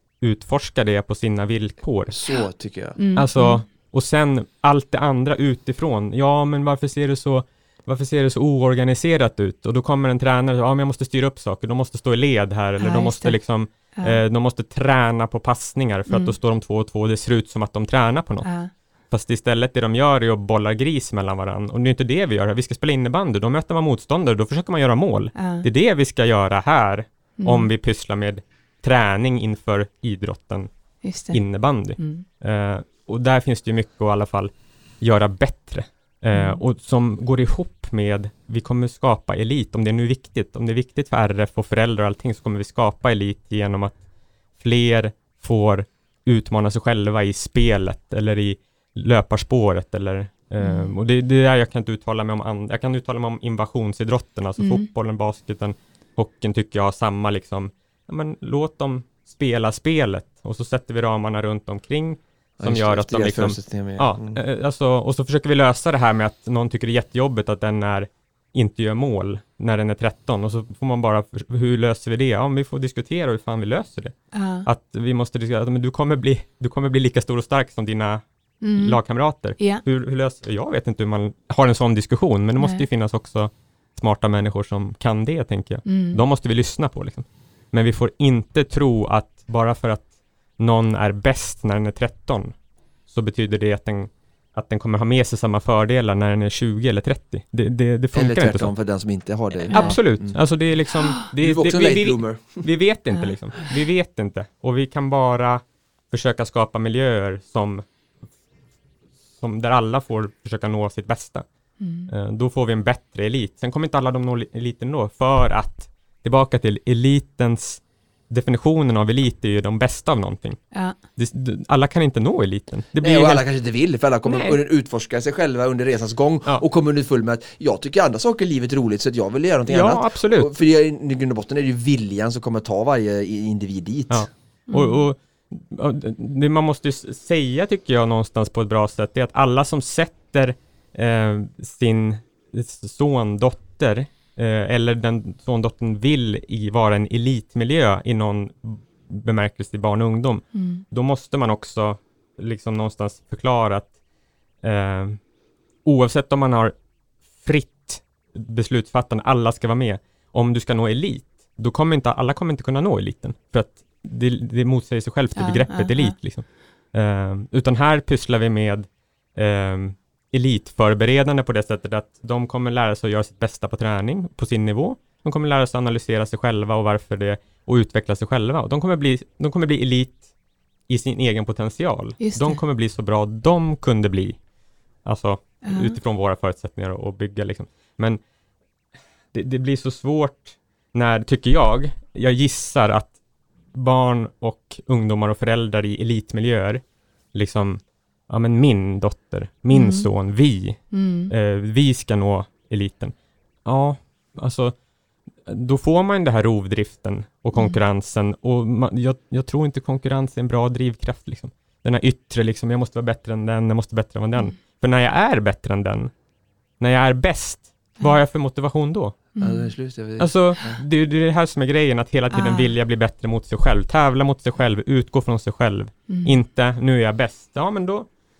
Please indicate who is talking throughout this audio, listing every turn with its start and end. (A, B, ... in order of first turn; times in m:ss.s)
0:00.2-0:02.2 A
0:02.1-0:03.0 B
0:03.0-0:03.6 C
0:03.2-0:18.5 A
0:12.8-0:13.4 C
0:14.0-0:14.2 C
0:16.1-0:16.3 C
0:18.4-0:18.7 C
0:19.1-0:30.7 A
0:25.4-0:25.6 C
0:27.4-0:27.7 C
0:31.0-0:31.4 C
0:31.3-0:44.0 A
0:32.0-0:32.2 C
0:36.3-0:36.6 C
0:44.6-1:18.2 A
0:50.6-0:50.9 C
0:54.6-0:54.8 C
1:02.6-1:04.4 B
1:14.3-1:14.7 C
1:18.6-1:19.0 C
1:18.7-1:32.5 A
1:19.6-1:19.8 C
1:22.6-1:22.8 C
1:25.9-1:26.2 C
1:33.1-1:38.7 A
1:38.1-1:40.4 B
1:39.6-1:47.8 A
1:39.7-1:40.0 C
1:41.4-1:42.6 B
1:49.4-1:51.4 A
1:51.8-1:52.1 C
1:52.1-2:00.6 A
2:01.2-2:03.4 A
2:03.0-2:14.3 B
2:04.2-2:04.6 C
2:09.7-2:10.5 A
2:14.1-2:33.9 A
2:14.7-2:15.1 C
2:30.5-2:30.8 C
2:34.6-2:35.2 A
2:35.8-2:36.7 A
2:37.4-3:00.2 A
2:45.4-2:46.2 C
3:00.9-3:04.4 A
3:02.2-3:02.6 C
3:05.0-3:08.2 A
3:05.6-3:06.0 C
3:09.3-3:13.1 A
3:13.7-3:16.8 A
3:17.3-3:23.1 A
3:19.7-3:20.1 C
3:20.9-3:21.3 C
3:23.6-3:24.7 A
3:25.4-3:36.1 A
3:36.8-3:39.2 A
3:39.4-3:39.7 C
3:39.4-3:40.8 B
3:40.2-3:48.1 A
3:42.3-3:42.7 C
3:46.1-3:46.4 C